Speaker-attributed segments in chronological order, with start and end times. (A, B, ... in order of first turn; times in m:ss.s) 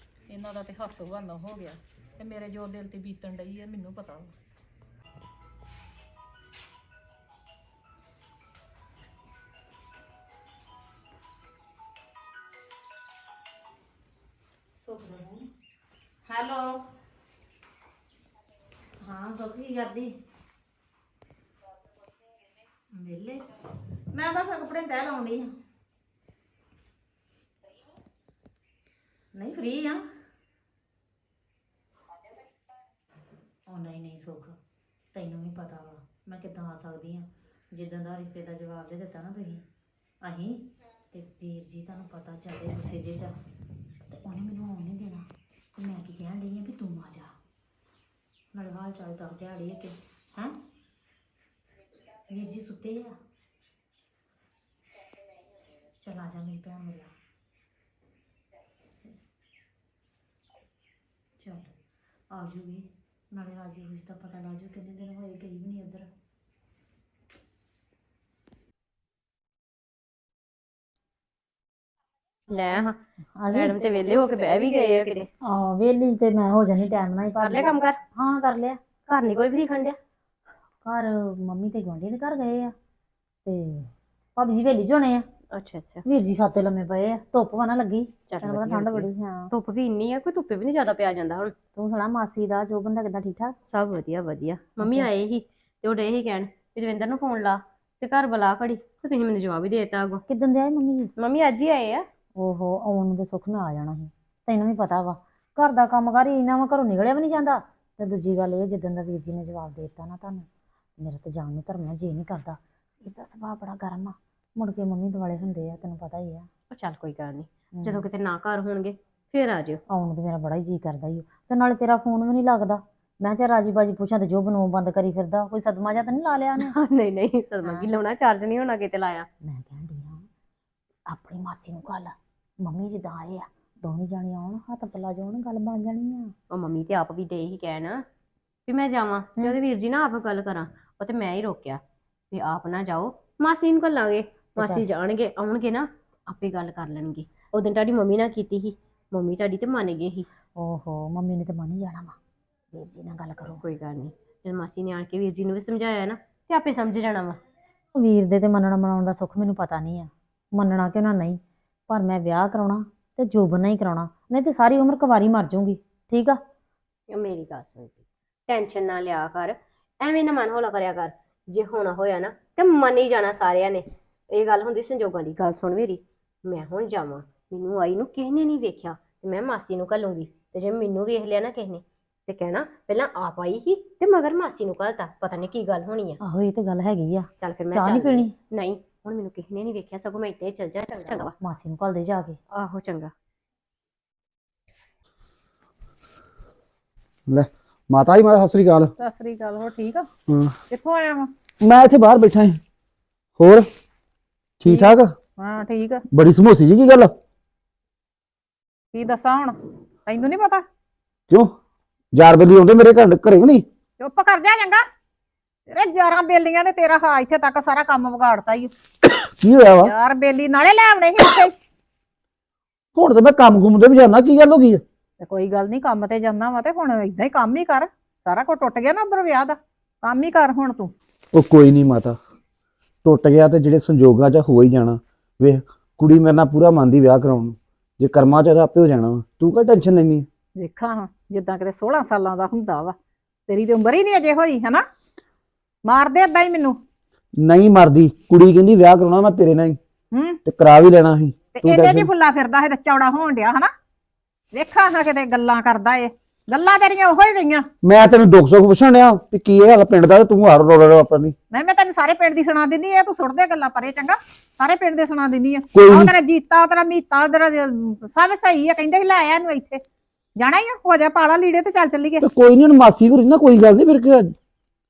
0:00.3-0:04.3 A
0:14.8-0:15.5 B
0:16.2-0:16.8 B
0:19.0-0:20.2 B
0:22.9-0:23.5 B
0:24.1-0:25.6 B
0:29.3-0:30.1 B
0:33.7-0:34.6 B
0:35.1-0:39.7 B
0:40.2-0:43.4 B
0:44.1-0:45.3 B
0:45.8-0:47.4 B
0:48.5-0:50.6 B
0:52.3-0:53.2 B
0:56.0-0:57.2 B
1:01.4-1:01.8 B
1:02.3-1:06.1 B
1:12.5-1:13.0 C
1:13.4-1:14.3 B
1:13.5-1:15.3 C
1:15.4-1:18.8 B
1:17.4-1:18.0 C
1:19.1-1:20.0 C
1:20.8-1:22.8 B
1:23.5-1:25.2 B
1:25.5-1:26.0 C
1:26.1-1:29.5 B
1:28.3-1:31.5 C
1:31.8-1:33.6 B
1:33.6-1:40.2 C
1:34.8-1:35.1 B
1:40.3-1:41.1 B
1:41.2-1:42.1 C
1:42.4-1:50.5 B
1:51.0-1:56.5 B
1:56.7-1:59.8 C
1:57.7-1:58.0 B
1:59.9-2:06.8 B
2:06.6-2:09.3 C
2:07.6-2:07.9 B
2:09.4-2:10.3 B
2:11.1-2:16.3 B
2:16.5-2:18.0 C
2:18.7-2:30.3 C
2:24.6-2:24.8 B
2:30.6-2:32.2 B
2:32.7-2:33.6 B
2:33.6-2:37.4 C
2:38.0-2:46.4 B
2:47.1-3:06.2 C
3:06.2-3:08.3 B
3:07.4-3:11.4 C
3:11.4-3:12.4 B
3:12.5-3:13.1 C
3:17.3-3:18.9 D
3:19.0-3:20.1 A
3:20.3-3:20.5 D
3:20.7-3:21.3 A
3:21.6-3:22.6 D
3:23.4-3:23.6 D
3:24.6-3:25.1 D
3:24.6-3:26.0 A
3:26.1-3:27.1 D
3:28.9-3:30.6 A
3:32.1-3:33.7 D
3:34.0-3:34.8 A
3:35.7-3:38.7 A
3:39.4-3:39.9 D
3:39.7-3:41.5 A
3:43.0-3:44.8 D
3:45.2-3:50.9 A
3:51.3-3:52.2 D
3:53.0-4:00.3 D
4:00.6-4:02.9 A
4:03.5-4:04.8 A
4:05.8-4:06.8 A
4:07.4-4:09.8 D
4:10.1-4:10.4 A
4:10.5-4:12.1 D
4:11.6-4:13.7 A
4:14.5-4:17.7 A
4:17.8-4:21.4 D
4:21.5-4:29.8 A
4:25.7-4:26.1 D
4:30.4-4:32.2 A
4:32.2-4:34.3 D